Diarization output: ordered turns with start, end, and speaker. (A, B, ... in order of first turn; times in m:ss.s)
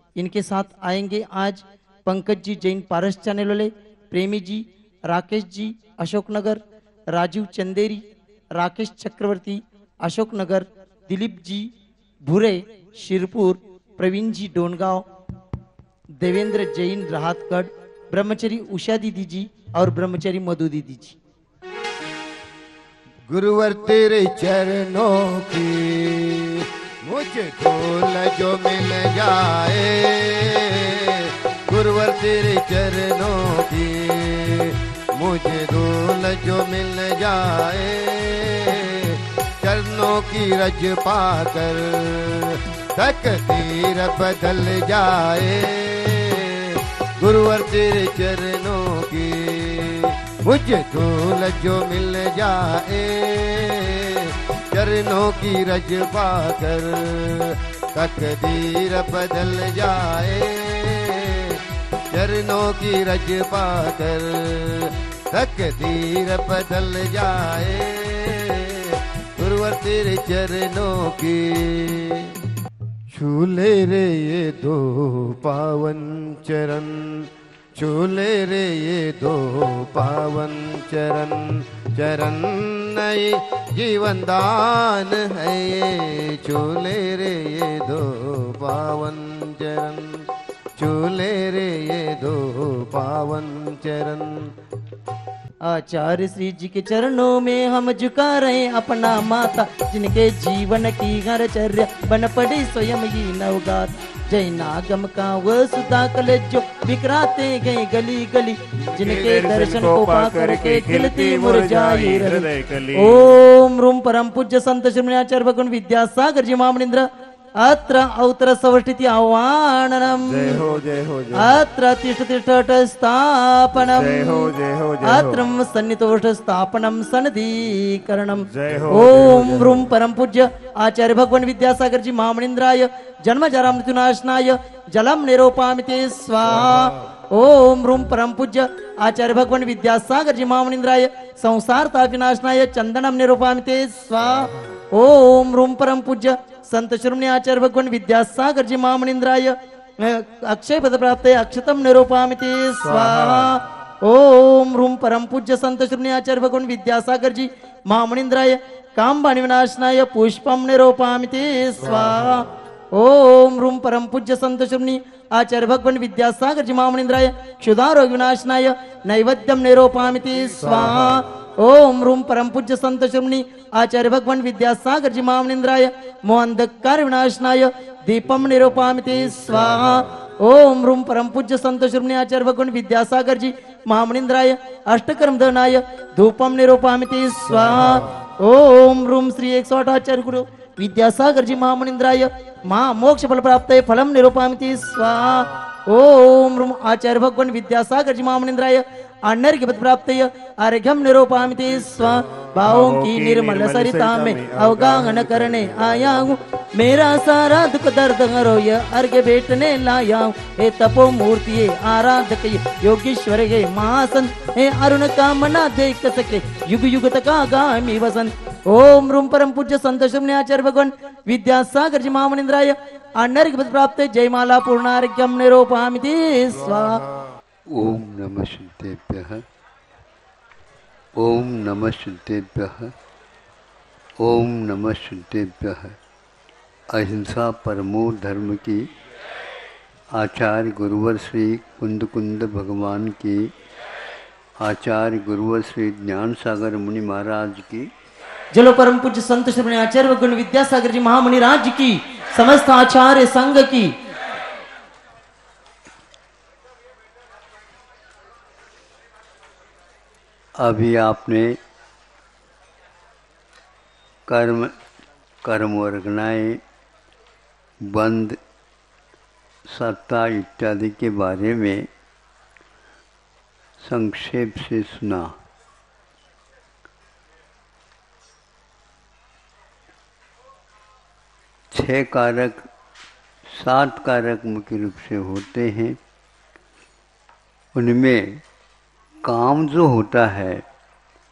0:00.2-0:11.7 A
0:12.2-0:15.0 A
0:16.2-0:21.2 A
0:23.3-1:01.6 B
1:02.1-1:12.3 B
1:13.1-1:30.2 B
1:30.8-1:34.5 B
1:35.6-1:57.1 A
1:48.9-1:53.3 C
1:57.6-2:00.6 A
2:00.2-2:01.6 C
2:01.3-3:47.0 A
2:03.8-2:05.4 C
2:08.5-2:09.9 C
2:32.9-2:33.5 C
2:50.7-2:51.1 C
3:22.6-3:26.0 C
3:47.7-3:49.4 D
3:51.2-3:52.9 D
3:54.2-3:56.0 D
3:56.9-3:58.9 D
4:00.1-4:03.5 D
4:04.6-4:07.9 D
4:08.5-4:13.9 A
4:20.6-4:21.6 D
4:24.3-4:24.7 D
4:25.4-4:26.6 D
4:27.8-4:28.4 D
4:29.6-4:31.9 D
4:33.8-4:35.4 D
4:41.7-4:42.7 D
4:43.4-4:46.0 D
4:47.7-4:48.4 D
4:49.2-4:50.6 D